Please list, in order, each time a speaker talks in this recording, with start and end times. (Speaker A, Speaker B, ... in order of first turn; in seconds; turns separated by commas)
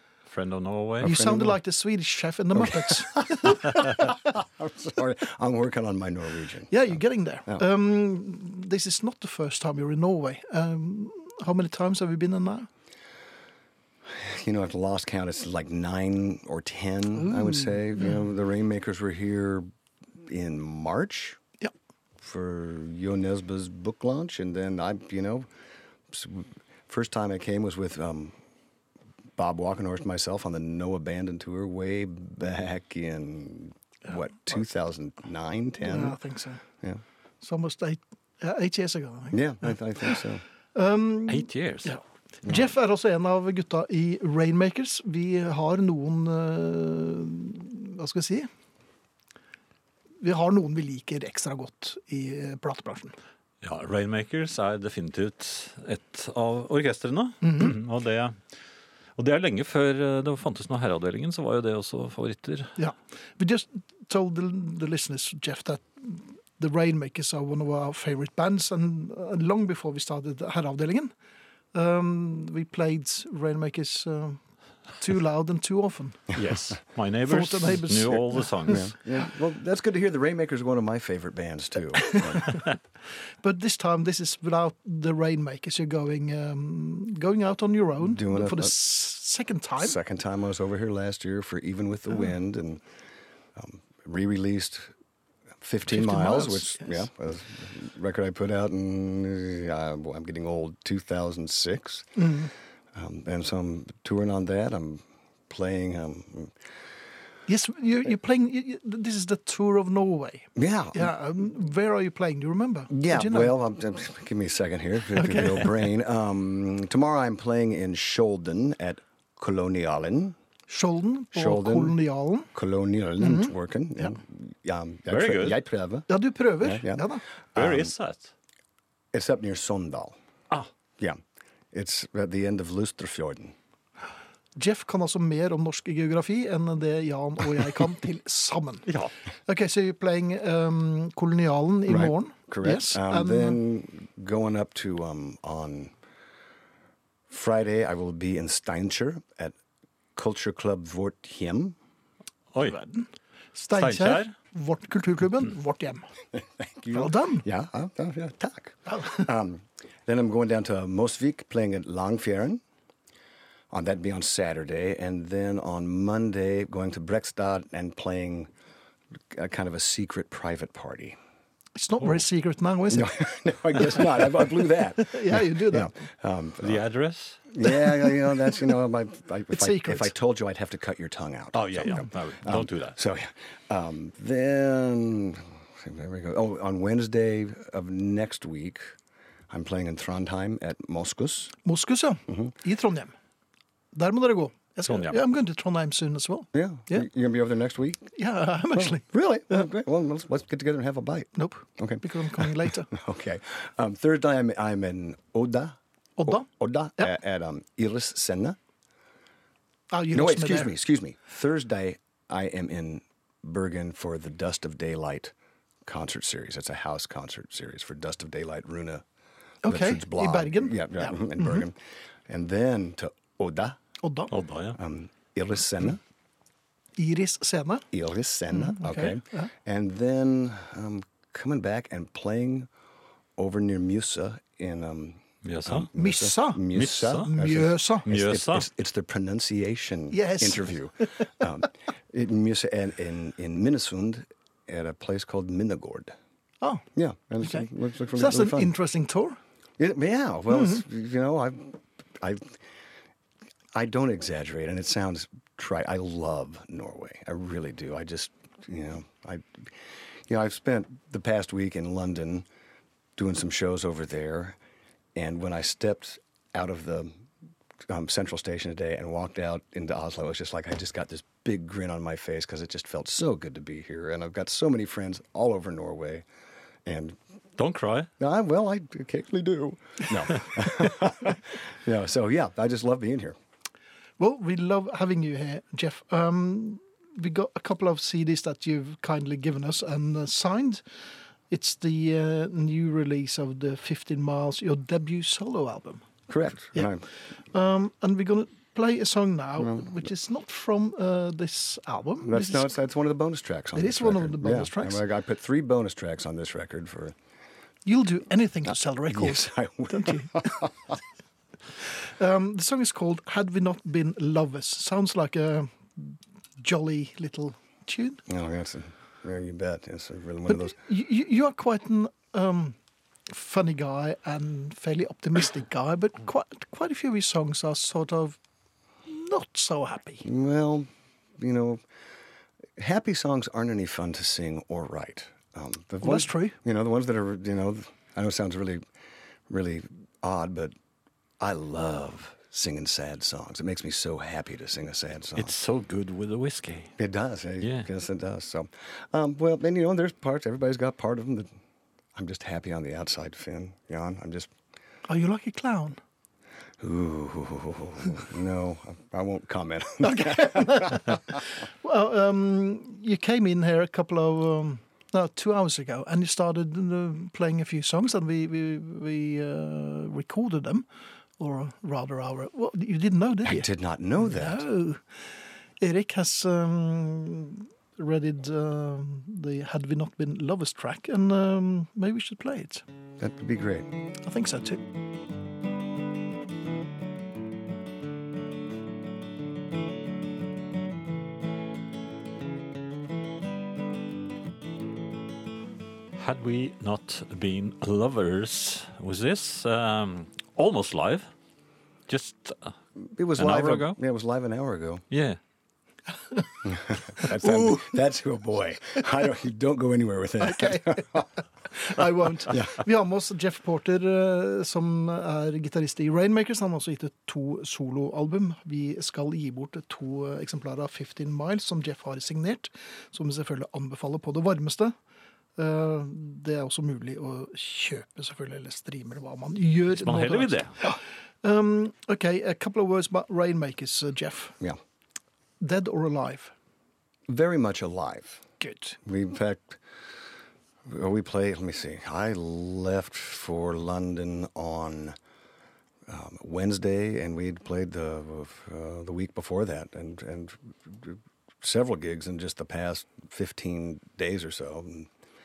Speaker A: 0.3-1.1, Speaker B: 1.0-1.6, Speaker C: 1.0-4.0, Speaker B: 2.9-7.6, Speaker C: 6.7-12.7, Speaker B: 14.1-19.7, Speaker C: 17.2-18.2, Speaker B: 20.2-21.4, Speaker B: 22.2-25.5, Speaker B: 26.1-28.4, Speaker B: 29.4-36.2, Speaker C: 35.8-36.6, Speaker C: 37.4-40.2, Speaker B: 39.3-40.4, Speaker C: 40.8-48.5, Speaker A: 41.3-42.0, Speaker C: 50.2-53.1, Speaker A: 53.6-58.4, Speaker C: 57.4-57.7, Speaker A: 59.2-62.8, Speaker C: 62.8-71.1, Speaker C: 71.7-74.4, Speaker C: 75.0-76.3, Speaker A: 76.3-78.9, Speaker C: 77.3-78.8, Speaker B: 78.7-82.6, Speaker C: 82.0-82.6, Speaker C: 83.4-90.0, Speaker B: 88.0-88.8, Speaker B: 89.8-92.8, Speaker B: 93.6-94.9, Speaker B: 95.6-102.2, Speaker C: 95.9-97.1, Speaker C: 102.2-102.5, Speaker B: 102.9-106.5, Speaker C: 107.5-113.5, Speaker B: 110.6-111.1, Speaker B: 112.9-120.4, Speaker C: 115.1-115.7, Speaker C: 120.7-122.5, Speaker B: 121.3-122.0, Speaker B: 122.5-126.1, Speaker C: 123.2-124.1, Speaker A: 125.1-125.6, Speaker C: 126.1-127.2, Speaker B: 126.6-127.9, Speaker A: 127.6-128.3, Speaker B: 129.1-130.2, Speaker B: 131.7-133.6, Speaker C: 134.6-138.9, Speaker A: 138.9-139.1, Speaker C: 139.5-143.6, Speaker B: 141.9-145.9, Speaker B: 147.3-149.6, Speaker B: 150.2-151.8, Speaker C: 152.6-156.1, Speaker A: 153.8-154.3, Speaker B: 156.6-162.6, Speaker C: 156.9-157.5, Speaker C: 158.9-159.2, Speaker B: 163.7-168.5, Speaker B: 169.3-171.2, Speaker C: 171.8-173.2, Speaker B: 172.9-176.8, Speaker C: 173.8-175.9, Speaker A: 176.6-177.4, Speaker B: 177.5-188.9, Speaker C: 177.7-178.2, Speaker C: 179.5-180.1, Speaker A: 181.5-183.0, Speaker B: 189.5-191.6, Speaker C: 191.6-193.1, Speaker B: 192.3-192.5, Speaker C: 193.9-197.1, Speaker A: 194.9-195.2, Speaker B: 196.5-198.1, Speaker C: 198.1-199.7, Speaker B: 198.7-208.6, Speaker C: 201.4-202.9, Speaker C: 206.2-206.5, Speaker C: 209.9-210.7, Speaker B: 210.1-215.3, Speaker B: 215.8-219.0, Speaker C: 219.6-221.6, Speaker B: 219.7-223.8, Speaker C: 224.0-224.3, Speaker A: 224.3-224.8, Speaker B: 224.8-226.0, Speaker C: 227.0-227.9, Speaker B: 227.9-232.7, Speaker C: 228.5-229.5, Speaker B: 233.4-246.2, Speaker A: 235.4-235.9, Speaker C: 235.9-238.1, Speaker A: 236.7-237.3, Speaker A: 238.1-238.7, Speaker C: 240.1-241.3, Speaker B: 246.9-248.7, Speaker C: 247.4-249.4, Speaker B: 249.8-252.6, Speaker C: 250.5-250.8, Speaker B: 253.7-262.5, Speaker B: 263.2-264.6, Speaker B: 265.2-267.1, Speaker B: 267.9-276.2, Speaker B: 276.9-277.2, Speaker A: 277.6-278.1, Speaker B: 278.2-283.4, Speaker C: 284.2-290.8, Speaker C: 291.5-296.1, Speaker B: 296.3-297.1, Speaker C: 297.5-302.7, Speaker B: 299.6-300.1, Speaker B: 302.2-307.2, Speaker C: 303.8-305.0, Speaker C: 307.9-310.7, Speaker B: 308.7-310.9, Speaker C: 312.0-318.2, Speaker B: 318.3-320.8, Speaker C: 320.5-322.8, Speaker C: 323.3-328.4, Speaker C: 329.1-330.3, Speaker B: 330.2-330.9, Speaker B: 331.4-331.8, Speaker B: 332.8-338.8, Speaker C: 336.0-336.6, Speaker B: 339.5-340.8, Speaker B: 341.4-345.5, Speaker A: 345.4-346.9, Speaker B: 347.0-351.5, Speaker A: 347.6-347.9, Speaker B: 352.1-354.5, Speaker C: 355.1-356.0, Speaker B: 356.8-361.2, Speaker C: 360.0-370.9, Speaker C: 371.4-373.7, Speaker B: 373.4-374.6, Speaker C: 374.2-375.0, Speaker C: 375.8-382.8, Speaker B: 383.2-383.9, Speaker C: 384.2-384.8, Speaker A: 396.2-401.3, Speaker A: 402.1-402.7, Speaker B: 403.0-405.1, Speaker A: 403.4-404.0, Speaker A: 405.1-405.4, Speaker B: 406.6-411.3, Speaker C: 407.2-407.9, Speaker C: 410.4-424.9, Speaker B: 412.5-412.9, Speaker C: 425.6-434.6, Speaker A: 429.9-430.8, Speaker C: 435.6-436.5, Speaker B: 437.3-438.4, Speaker C: 438.6-439.0, Speaker B: 439.1-439.8, Speaker B: 440.9-445.2, Speaker B: 446.1-455.1